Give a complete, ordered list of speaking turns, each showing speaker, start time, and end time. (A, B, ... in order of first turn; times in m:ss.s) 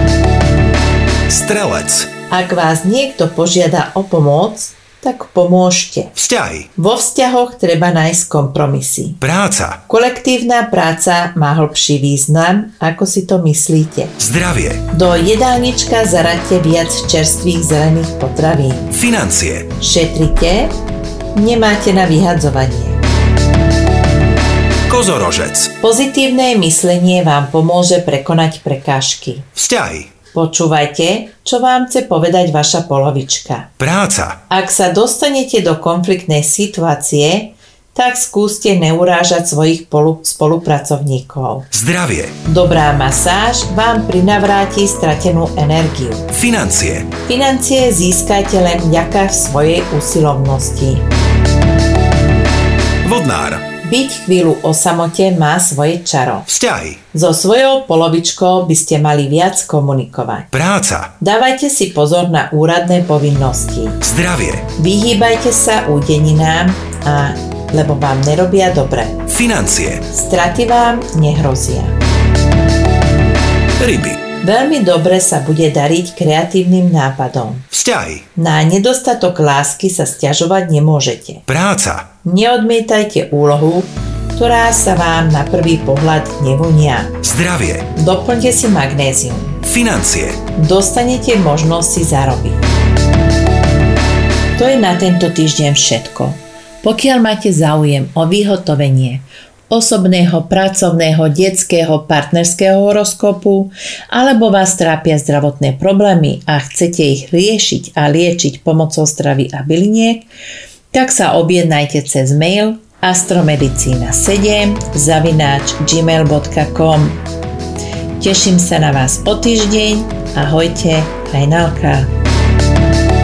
0:01.3-0:02.1 A
0:02.3-0:06.1 B
0:06.2-0:06.7 A
0:06.8-0:09.2 B
0:09.2-0:09.8 A
0:09.9-0:14.2 B
0:14.2-0:14.8 A
0:14.9-0:18.9 B
0:18.9-0:19.7 A
0:19.8-0:20.8 B
0:21.4-0:23.0 B
0:24.9-0:25.7 A
0:25.8-0:29.5 B
0:29.6-0:30.1 A
0:30.3-0:33.7 B
0:33.8-0:34.4 A
0:34.5-0:41.7 B
0:41.7-0:42.4 A
0:42.4-0:46.3 B
0:46.3-0:47.1 A
0:47.3-0:51.0 B
0:53.0-0:53.6 A
0:53.8-0:56.5 B
0:56.5-0:57.0 A
0:57.1-1:00.5 B
1:00.5-1:01.1 A
1:01.2-1:04.0 B
1:04.0-1:04.7 A
1:04.8-1:09.3 B
1:09.3-1:10.0 A
1:10.1-1:12.0 B
1:13.8-1:14.2 A
1:14.4-1:17.7 B
1:17.7-1:18.2 A
1:18.4-1:21.4 B
1:21.5-1:22.1 A
1:22.2-1:27.2 B
1:27.2-1:27.9 A
1:28.0-1:29.6 B
1:29.6-1:30.4 A
1:30.6-1:32.7 B
1:34.6-1:50.3 B
1:50.9-1:57.2 B
1:58.2-2:02.1 B